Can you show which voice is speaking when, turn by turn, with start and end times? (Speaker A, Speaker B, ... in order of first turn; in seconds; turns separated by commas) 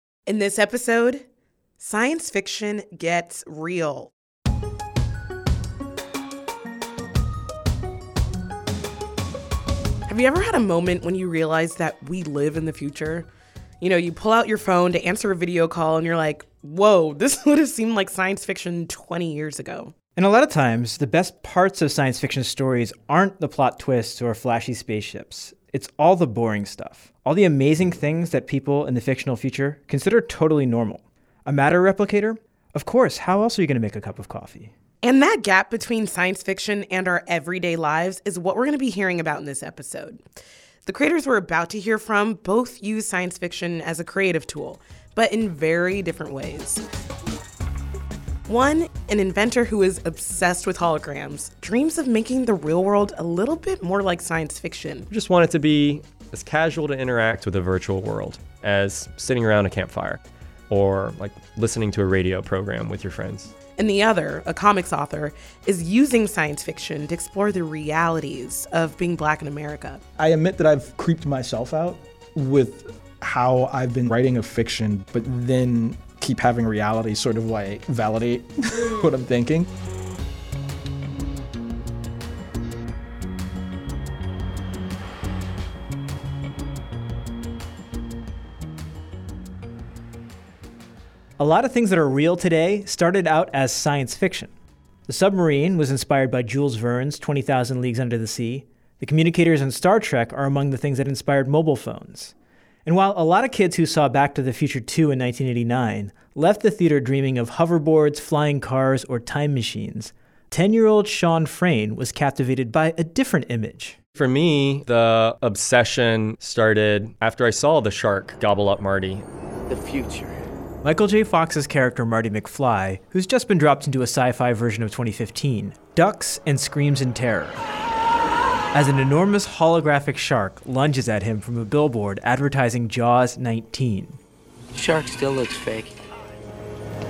Speaker A: 0.3-1.2, Speaker A: 1.8-4.1, Speaker A: 10.1-13.3, Speaker A: 13.8-19.9, Speaker B: 20.2-34.7, Speaker A: 35.0-40.2, Speaker A: 40.9-46.8, Speaker A: 48.5-55.1, Speaker C: 55.1-60.2, Speaker C: 60.7-63.5, Speaker A: 63.8-70.0, Speaker D: 70.2-79.7, Speaker B: 91.4-94.5, Speaker B: 95.1-102.3, Speaker B: 102.8-114.0, Speaker C: 114.2-119.2, Speaker E: 119.7-120.4, Speaker B: 120.8-127.6, Speaker B: 128.7-134.2, Speaker E: 134.7-136.0